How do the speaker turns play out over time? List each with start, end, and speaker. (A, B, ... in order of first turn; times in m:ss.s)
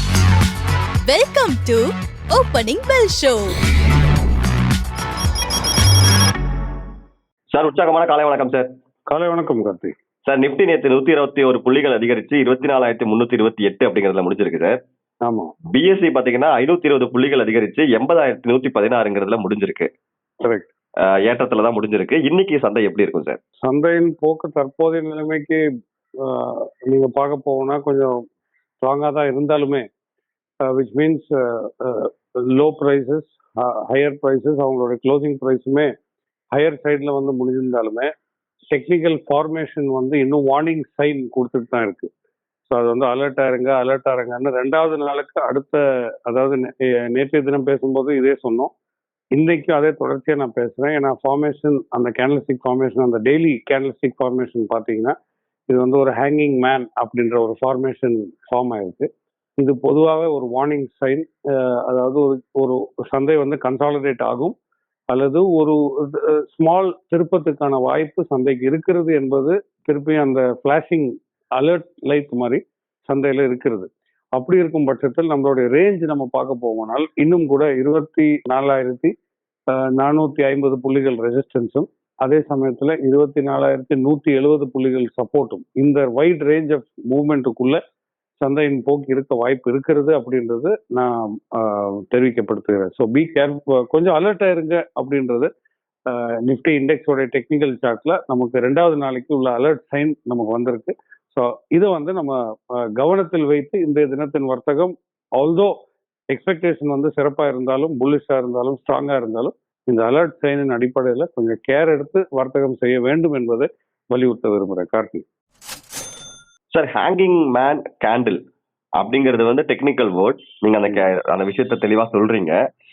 0:01.0-0:03.5 A
0:07.5-0:08.7 B
0:09.1-0:09.9 C
0:10.2-0:14.8 B
0:15.2-0:15.5 C
0:15.7-0:19.9 B
0:20.4-0:20.7 C
0:21.0-0:23.4 B
0:23.6-0:25.6 C
0:26.2-0:28.2 C
0:28.8-0:29.8 C
0:30.6-0:35.9 C
0:36.5-0:38.1 C
0:38.7-0:42.1 C
0:42.7-0:48.7 C
0:49.3-0:55.1 C
0:55.7-1:04.6 C
1:05.1-1:19.1 C
1:19.7-1:27.8 C
1:28.4-1:35.5 C
1:36.1-1:45.7 C
1:46.3-1:55.2 C
1:56.7-1:58.4 B
1:59.0-2:02.6 B